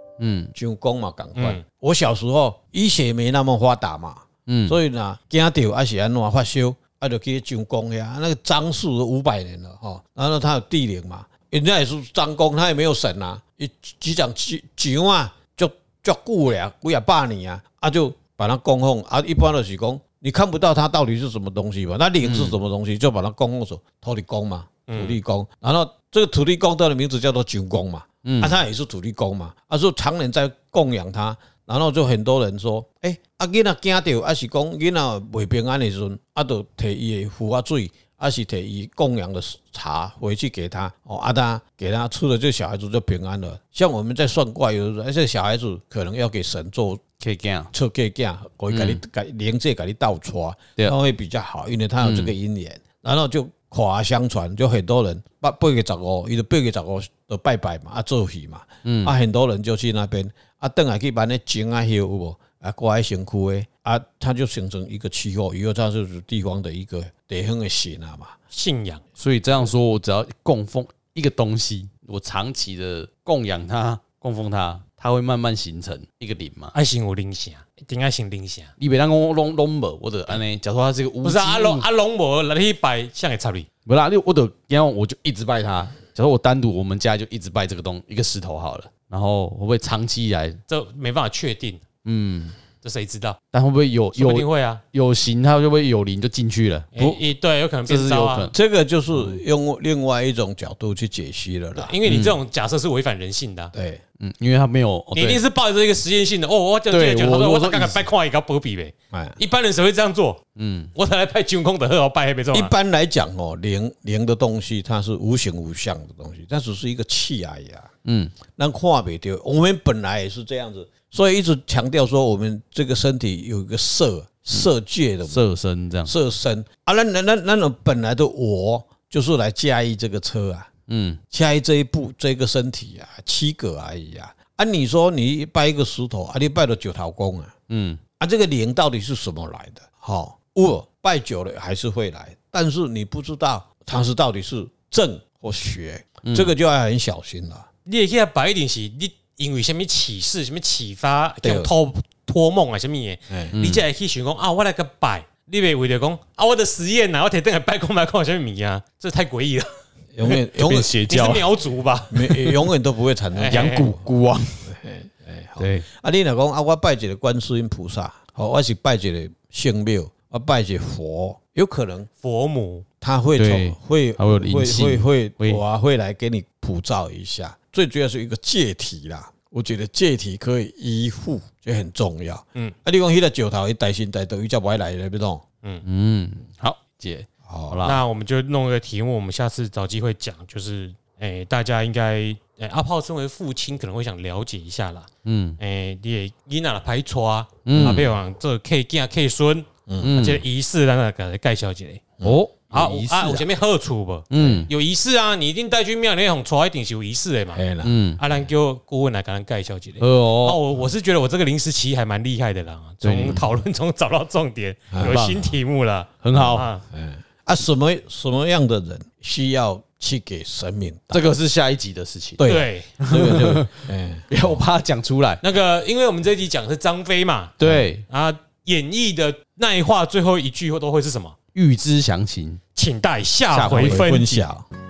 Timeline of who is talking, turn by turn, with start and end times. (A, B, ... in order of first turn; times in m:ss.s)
0:00.2-0:00.5 A
0:00.5-0:47.0 B
0:01.4-0:01.6 C
0:04.5-0:04.8 A
0:22.2-0:22.6 A
0:24.9-0:25.2 C
0:28.2-0:28.6 A
0:47.2-0:47.7 A
0:47.7-1:08.4 B
0:48.7-0:49.0 A
0:52.0-0:52.4 A
0:58.9-0:59.1 A
1:08.5-1:09.0 C
1:09.2-1:16.7 A
1:16.7-1:18.7 C
1:18.8-1:21.8 A
1:21.2-1:23.7 C
1:23.9-1:30.6 A
1:30.7-1:31.8 C
1:32.0-1:32.6 A
1:32.8-1:33.4 C
1:33.5-1:37.2 A
1:34.1-1:34.8 C
1:37.0-1:38.5 C
1:37.9-1:38.5 A
1:38.5-1:42.0 B
1:39.1-1:39.4 A
1:41.8-1:43.7 C
1:42.0-1:42.4 A
1:43.7-1:44.0 B
1:44.2-1:45.4 A
1:45.1-1:50.4 C
1:46.9-1:48.1 A
1:49.1-1:49.4 B
1:50.6-1:50.9 A
1:50.9-1:52.7 C
1:52.5-1:57.9 B
1:58.0-1:58.4 A
1:58.5-2:05.4 B
2:05.3-2:06.1 A
2:06.1-2:10.7 B
2:10.9-2:11.2 A
2:11.3-2:17.5 B
2:17.7-2:18.0 A
2:18.2-2:27.7 B
2:26.2-2:26.5 A
2:27.9-2:39.7 C
2:31.4-2:31.7 B
2:33.3-2:33.6 B
2:33.5-2:33.8 A
2:40.2-2:40.9 B
2:40.3-2:41.5 A
2:40.9-2:42.4 C
2:42.1-2:44.0 B
2:43.4-2:43.9 C
2:43.5-2:44.7 A
2:44.7-2:52.1 B
2:45.6-2:45.9 A
2:52.2-2:52.8 C
2:53.0-3:05.4 B
2:53.4-2:55.6 A
3:05.8-3:08.0 A
3:07.5-3:07.8 B
3:07.8-3:22.0 C
3:15.2-3:15.6 A
3:17.6-3:18.1 A
3:17.8-3:18.0 B
3:19.9-3:20.2 B
3:20.0-3:20.4 A
3:22.2-3:23.5 A
3:22.7-3:27.6 C
3:24.3-3:24.7 A
3:24.4-3:24.7 B
3:27.5-3:28.0 B
3:27.8-3:28.2 A
3:28.2-3:36.8 C
3:30.0-3:30.6 A
3:33.0-3:33.4 A
3:34.9-3:35.2 B
3:35.0-3:35.6 A
3:36.2-3:36.7 A
3:36.9-3:41.2 B
3:41.1-3:43.7 A
3:42.4-3:44.6 B
3:42.5-3:42.9 C
3:44.3-3:45.4 A
3:45.4-3:47.6 C
3:47.6-3:48.0 A
3:48.1-3:51.4 C
3:51.5-3:52.6 A
3:52.8-3:54.5 C
3:53.5-3:54.2 A
3:53.7-3:54.7 B